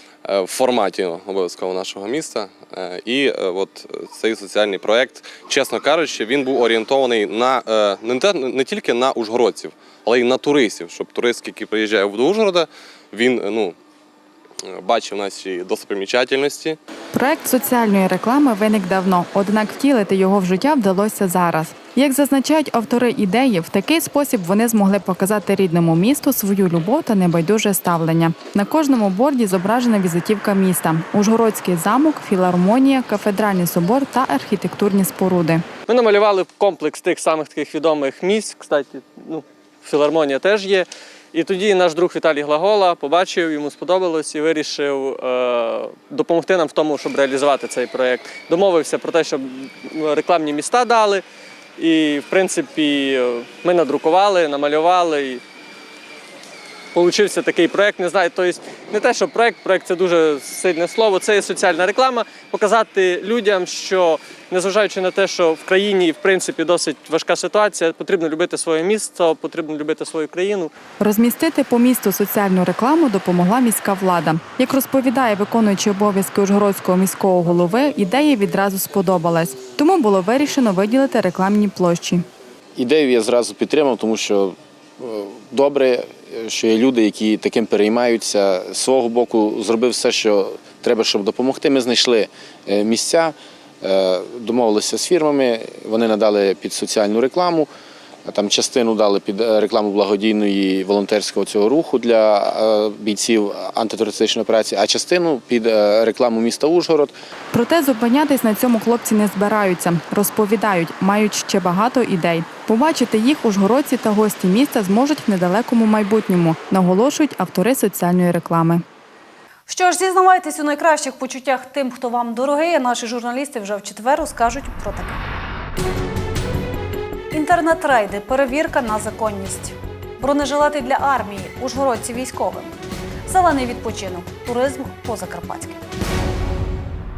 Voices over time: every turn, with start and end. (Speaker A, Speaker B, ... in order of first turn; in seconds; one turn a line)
Speaker A: 0.2-13.8
Speaker A: 14.6-16.8
Speaker B: 17.1-35.6
Speaker C: 35.9-51.2
Speaker C: 51.8-55.4
Speaker C: 56.9-70.7
Speaker B: 71.0-82.2
Speaker D: 82.8-97.7
Speaker D: 98.2-107.1
Speaker B: 107.5-118.8
Speaker E: 119.7-125.2
Speaker E: 127.3-132.7
Speaker E: 133.3-135.8